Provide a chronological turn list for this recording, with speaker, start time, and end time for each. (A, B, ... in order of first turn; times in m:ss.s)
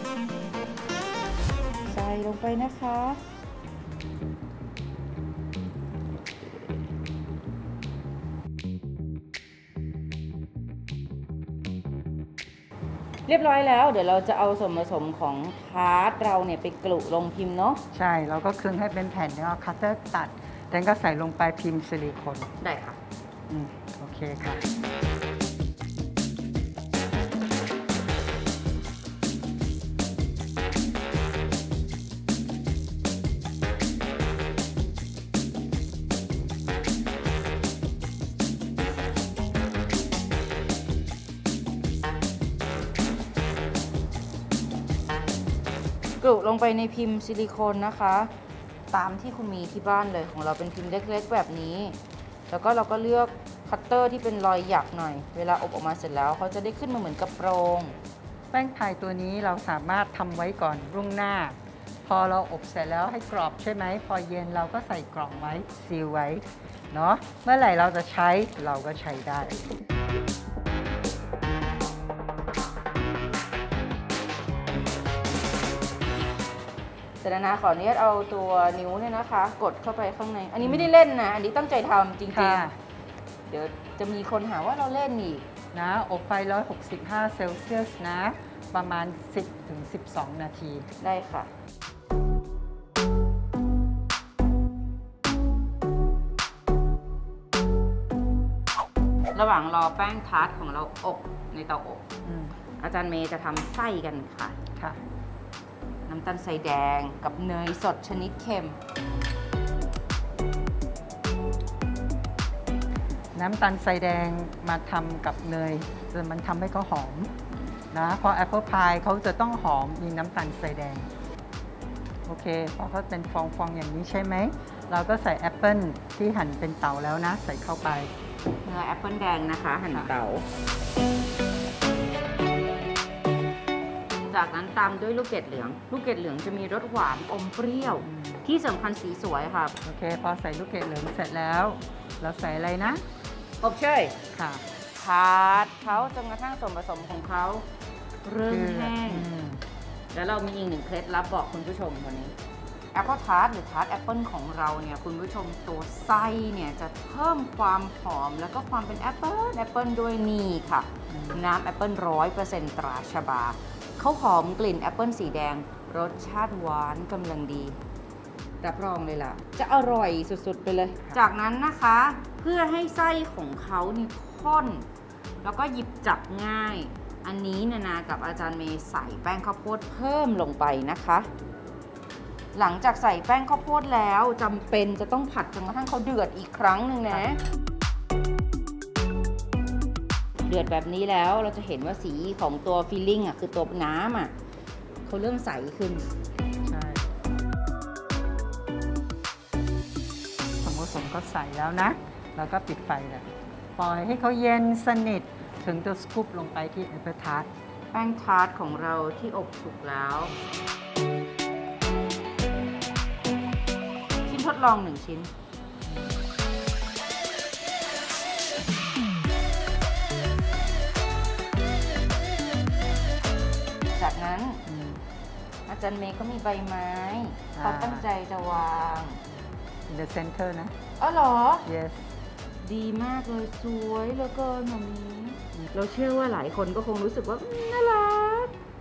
0:01.9-0:03.2 A
0:13.3-0:17.8 A
0:17.9-0:22.5 B
0:22.6-0:23.0 A
0:23.5-0:24.7 B
0:46.2-0:48.3 A
0:48.9-0:52.0 A
0:52.5-0:58.0 A
0:58.5-1:09.6 B
1:17.2-1:22.7 A
1:22.3-1:22.7 B
1:23.5-1:25.4 A
1:25.7-1:30.9 B
1:31.0-1:31.5 A
1:39.3-1:42.1 A
1:42.2-1:42.5 B
1:42.8-1:44.6 A
1:46.0-1:48.8 A
1:53.3-1:57.3 B
1:57.9-2:01.1 B
2:02.2-2:08.1 B
2:08.6-2:10.4 A
2:14.1-2:19.8 A
2:17.8-2:18.4 B
2:19.8-2:23.0 B
2:23.6-2:24.2 A
2:24.3-2:24.6 B
2:24.9-2:27.6 A
2:28.2-2:29.3 A
2:28.5-2:29.6 B
2:30.1-2:32.3 A
2:32.9-2:47.8 A
2:41.1-2:41.4 B
2:48.6-2:54.8 A
2:55.4-3:01.3 A
3:02.5-3:07.4 A
3:10.5-3:14.3 A
3:15.0-3:16.1 A
3:16.6-3:17.1 B
3:20.6-3:27.5 B
3:27.9-3:30.4 A
3:34.3-3:35.3 A
3:43.9-3:44.6 A
3:44.6-3:45.0 B
3:45.7-3:49.2 A
3:47.6-3:48.0 B
3:49.9-3:50.7 B
3:51.0-3:51.7 A
3:51.6-3:52.1 B
3:52.6-3:58.5 A